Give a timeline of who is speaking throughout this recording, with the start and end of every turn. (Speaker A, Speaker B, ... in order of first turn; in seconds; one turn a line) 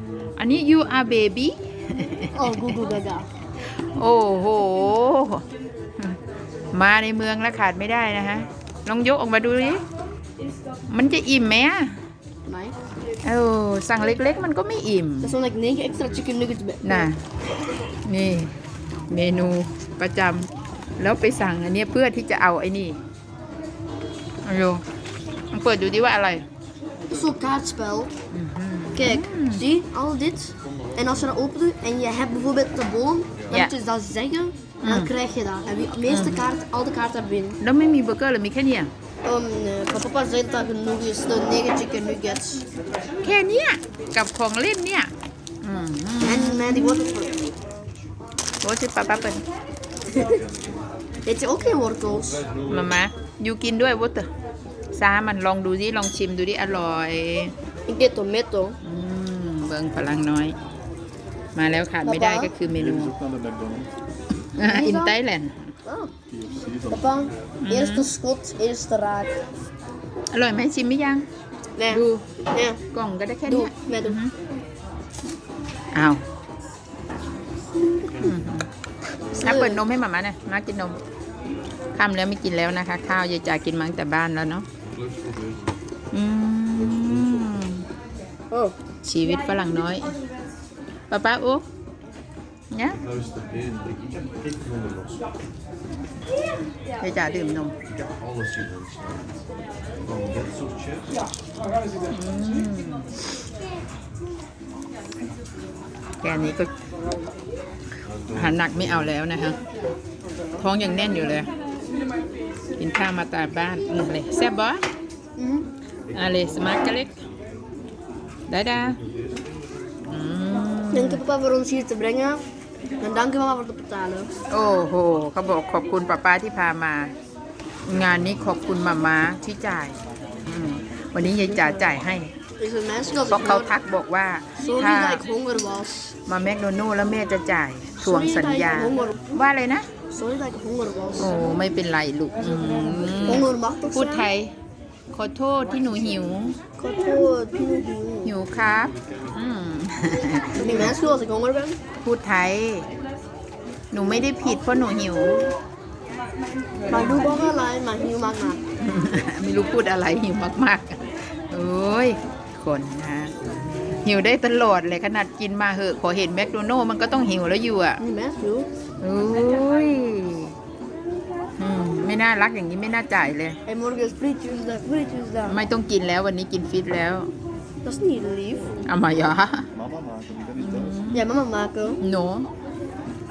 Speaker A: 0.4-2.8
Speaker B: 2.3-3.3
Speaker A: 3.8-5.4
Speaker A: 6.7-9.8
Speaker A: 10.9-12.0
Speaker B: 12.4-12.8
Speaker A: 13.2-15.3
Speaker B: 15.2-17.1
Speaker A: 16.8-17.2
Speaker A: 18.0-18.5
Speaker A: 19.1-20.5
Speaker A: 21.0-23.0
Speaker A: 24.4-24.8
Speaker A: 25.5-26.4
Speaker B: 27.1-28.1
Speaker A: 28.3-29.6
Speaker B: 28.9-37.6
Speaker A: 34.8-35.1
Speaker A: 36.0-36.4
Speaker A: 37.6-38.9
Speaker B: 39.2-42.6
Speaker A: 43.2-45.1
Speaker A: 45.6-47.0
Speaker B: 46.2-47.5
Speaker A: 48.6-49.4
Speaker B: 50.1-50.4
Speaker B: 51.2-52.4
Speaker A: 52.6-54.3
Speaker A: 54.9-57.5
Speaker B: 57.9-58.8
Speaker A: 58.8-60.5
Speaker A: 61.5-63.2
Speaker B: 62.0-62.5
Speaker C: 63.2-63.9
Speaker A: 64.5-65.7
Speaker B: 64.6-65.2
Speaker B: 65.8-66.1
Speaker C: 66.3-66.8
Speaker B: 66.8-69.4
Speaker A: 67.6-68.1
Speaker A: 70.3-71.3
Speaker B: 71.8-72.8
Speaker A: 71.9-72.3
Speaker A: 72.9-74.3
Speaker B: 73.5-74.2
Speaker A: 75.9-76.2
Speaker A: 78.2-78.7
Speaker B: 79.3-79.8
Speaker A: 79.4-81.0
Speaker A: 81.9-84.7
Speaker A: 86.1-87.8
Speaker B: 88.5-88.8
Speaker A: 89.0-90.1
Speaker A: 91.1-91.7
Speaker A: 92.7-93.0
Speaker A: 97.0-97.7
Speaker A: 102.1-103.1
Speaker A: 106.2-106.7
Speaker A: 108.3-109.6
Speaker A: 110.6-111.5
Speaker A: 112.8-114.8
Speaker B: 115.4-115.7
Speaker A: 116.1-117.2
Speaker A: 118.5-119.0
Speaker A: 120.1-121.2
Speaker B: 120.9-122.4
Speaker B: 123.0-124.3
Speaker A: 124.5-127.1
Speaker A: 127.8-132.3
Speaker B: 132.6-133.8
Speaker A: 133.2-135.2
Speaker B: 134.6-136.1
Speaker A: 136.3-139.9
Speaker B: 138.0-139.4
Speaker B: 140.1-141.4
Speaker A: 141.2-144.5
Speaker B: 143.2-144.3
Speaker A: 145.1-146.6
Speaker B: 146.8-148.3
Speaker A: 148.2-151.0
Speaker B: 150.6-151.8
Speaker A: 152.0-152.9
Speaker A: 153.9-155.5
Speaker B: 156.9-158.6
Speaker A: 158.8-163.3
Speaker A: 164.0-168.0
Speaker B: 168.0-168.7
Speaker A: 169.0-170.5
Speaker A: 171.6-173.6
Speaker B: 173.7-175.6
Speaker A: 175.4-177.3
Speaker B: 177.8-178.8
Speaker A: 178.8-179.7
Speaker C: 179.8-180.5
Speaker A: 180.6-181.2
Speaker B: 181.1-182.0
Speaker A: 182.0-182.5